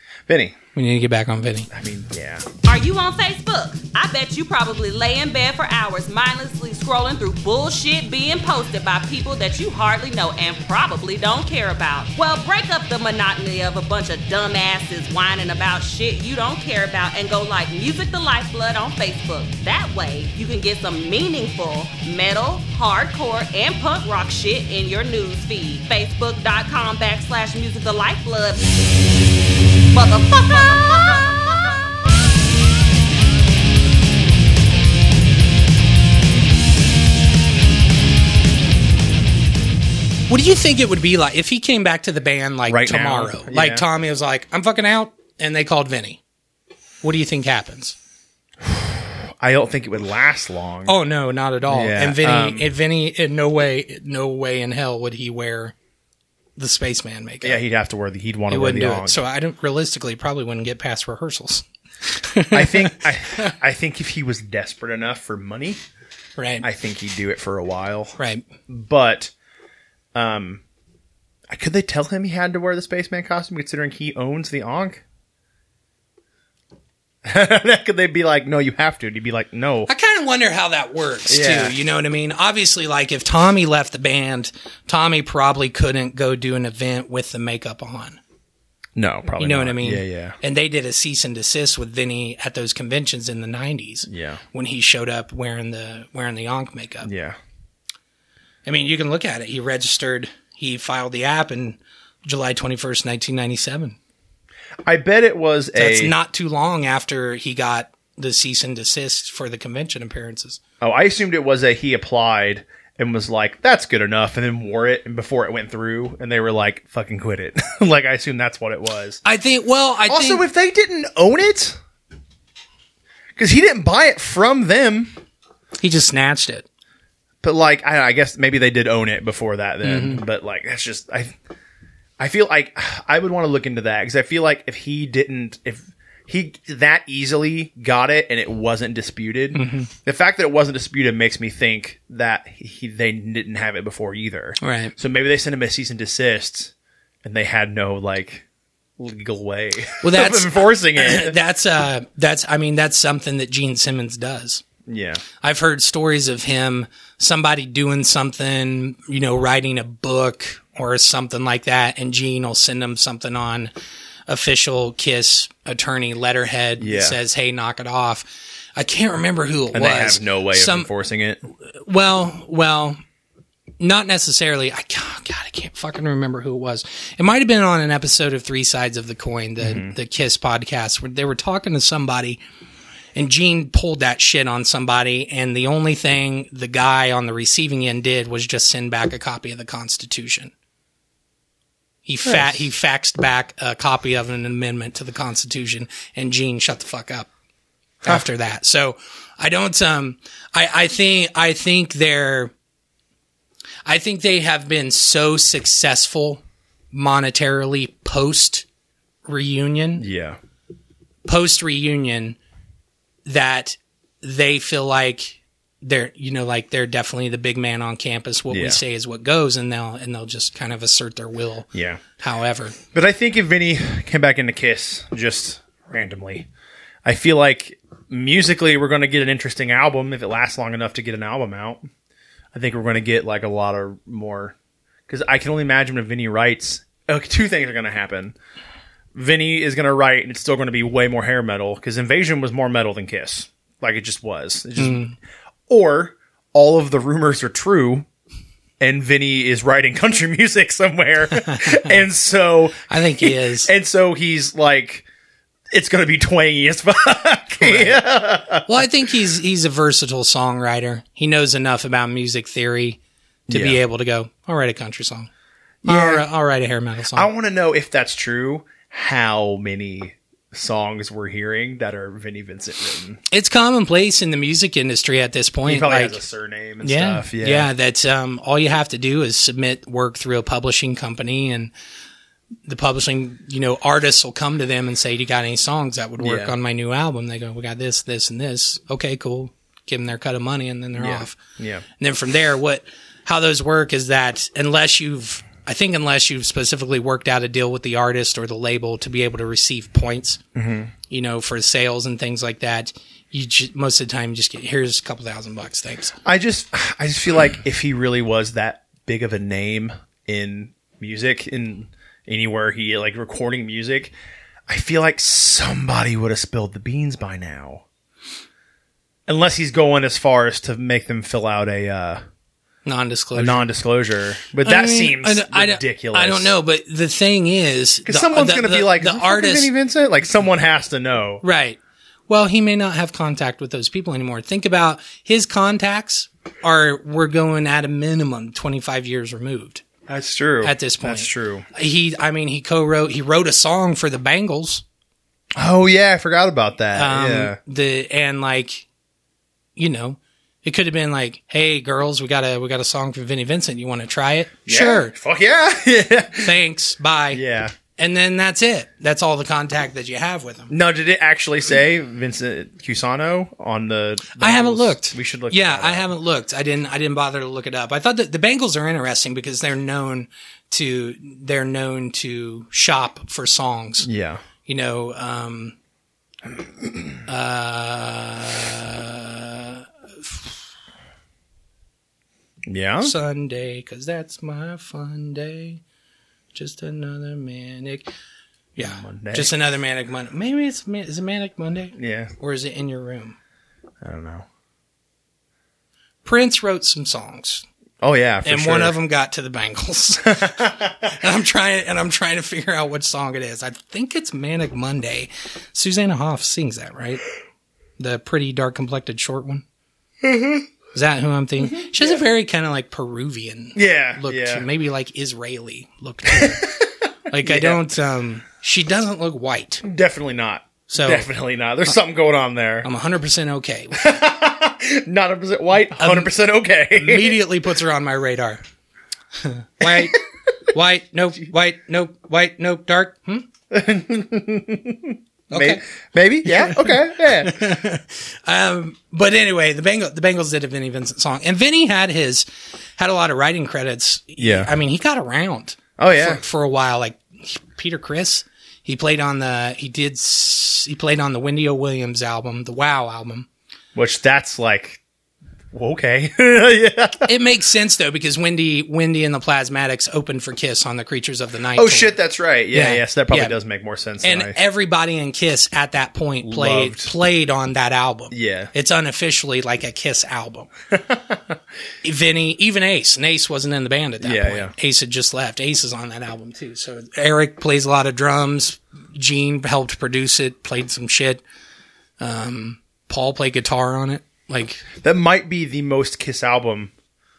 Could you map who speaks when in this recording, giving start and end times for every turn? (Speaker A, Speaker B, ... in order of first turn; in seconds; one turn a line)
Speaker A: 0.3-0.6
Speaker B: 0.7-1.7
Speaker A: 1.7-2.5
Speaker C: 2.6-28.7
Speaker C: 29.9-31.8
Speaker B: 40.3-46.2
Speaker A: 42.7-43.9
Speaker B: 47.0-48.0
Speaker A: 48.6-51.0
Speaker B: 50.9-55.8
Speaker A: 51.7-52.7
Speaker B: 56.6-57.6
Speaker A: 57.4-59.2
Speaker B: 58.5-63.5
Speaker A: 62.5-65.8
Speaker B: 66.4-66.7
Speaker A: 66.6-69.3
Speaker B: 68.2-68.5
Speaker A: 70.2-70.6
Speaker A: 71.5-75.0
Speaker A: 77.2-79.9
Speaker B: 79.9-88.2
Speaker A: 81.3-81.8
Speaker A: 89.0-90.4
Speaker B: 89.4-97.1
Speaker A: 94.1-94.4
Speaker A: 97.0-97.4
Speaker B: 98.7-104.0
Speaker A: 104.8-106.1
Speaker B: 105.8-110.6
Speaker A: 110.8-119.2
Speaker B: 119.2-120.4
Speaker A: 120.1-121.8
Speaker A: 123.4-125.1
Speaker B: 125.8-126.7
Speaker A: 127.4-131.4
Speaker B: 129.8-130.2
Speaker A: 132.2-146.7
Speaker B: 139.5-139.9
Speaker B: 144.6-144.9
Speaker A: 147.2-148.4
Speaker A: 149.0-151.4
Speaker B: 150.0-154.6
Speaker A: 154.9-155.2
Speaker B: 155.4-163.7
Speaker B: 164.3-170.9
Speaker A: 166.8-167.2
Speaker A: 169.7-171.4
Speaker B: 171.7-173.0
Speaker B: 173.8-182.4
Speaker A: 179.6-179.9
Speaker B: 183.2-190.5
Speaker B: 192.1-197.3
Speaker A: 192.2-192.7
Speaker B: 198.0-202.5
Speaker B: 203.9-208.7
Speaker B: 209.3-210.1
Speaker A: 210.0-210.4
Speaker B: 211.2-212.4
Speaker B: 213.2-222.8
Speaker A: 218.5-218.8
Speaker A: 221.7-222.0
Speaker A: 222.9-226.5
Speaker A: 227.1-231.8
Speaker A: 232.5-234.6
Speaker A: 235.1-238.3
Speaker A: 239.2-245.1
Speaker B: 244.8-245.2
Speaker A: 245.7-248.1
Speaker A: 248.8-255.1
Speaker B: 251.4-251.9
Speaker B: 252.9-253.7
Speaker A: 255.7-258.7
Speaker B: 257.6-258.0
Speaker B: 258.6-265.3
Speaker A: 263.5-263.8
Speaker A: 265.8-266.2
Speaker B: 265.9-267.3
Speaker A: 267.1-273.2
Speaker B: 273.3-276.2
Speaker A: 275.7-277.7
Speaker B: 276.8-281.7
Speaker B: 282.7-291.4
Speaker A: 286.2-286.5
Speaker A: 291.0-291.9
Speaker B: 292.0-300.4
Speaker A: 300.6-300.9
Speaker B: 301.1-306.2
Speaker A: 306.2-314.1
Speaker A: 314.7-317.8
Speaker A: 319.3-322.2
Speaker B: 322.9-323.7
Speaker A: 323.4-326.5
Speaker B: 324.6-329.7
Speaker A: 328.1-331.4
Speaker B: 331.4-339.9
Speaker A: 340.1-341.7
Speaker B: 340.6-344.8
Speaker A: 345.6-347.6
Speaker B: 346.9-348.9
Speaker B: 349.8-355.1
Speaker A: 354.7-356.5
Speaker B: 356.4-357.4
Speaker A: 357.3-357.8
Speaker B: 357.9-360.7
Speaker A: 360.7-366.1
Speaker B: 364.3-374.1
Speaker A: 374.0-374.4
Speaker B: 374.6-375.8
Speaker B: 377.3-380.5
Speaker A: 382.7-383.1
Speaker B: 383.0-385.8
Speaker B: 386.5-388.1
Speaker B: 388.8-393.4
Speaker A: 388.8-389.6
Speaker A: 392.0-392.3
Speaker A: 394.0-394.5
Speaker B: 396.2-397.6
Speaker A: 398.0-398.9
Speaker B: 398.4-407.2
Speaker A: 400.3-400.9
Speaker B: 408.0-409.6
Speaker A: 410.2-410.7
Speaker B: 410.9-416.7
Speaker A: 411.7-412.2
Speaker A: 413.8-414.7
Speaker A: 416.3-416.9
Speaker B: 417.3-419.9
Speaker A: 417.4-417.9
Speaker A: 419.8-422.9
Speaker B: 420.9-421.3
Speaker B: 422.8-424.1
Speaker A: 424.0-427.4
Speaker B: 426.0-426.3
Speaker B: 426.9-428.6
Speaker B: 429.4-433.5
Speaker A: 429.8-430.1
Speaker A: 433.7-437.8
Speaker B: 435.5-435.8
Speaker B: 436.4-442.5
Speaker B: 443.0-453.5
Speaker A: 444.4-444.7
Speaker A: 446.0-446.4
Speaker A: 453.9-455.0
Speaker A: 455.7-457.3
Speaker B: 457.2-462.2
Speaker A: 461.8-464.6
Speaker B: 462.7-463.6
Speaker B: 464.2-470.7
Speaker A: 466.4-467.1
Speaker A: 468.3-468.7
Speaker A: 470.9-471.4
Speaker B: 472.0-481.4
Speaker A: 474.2-474.7
Speaker B: 482.2-484.9
Speaker A: 485.0-486.9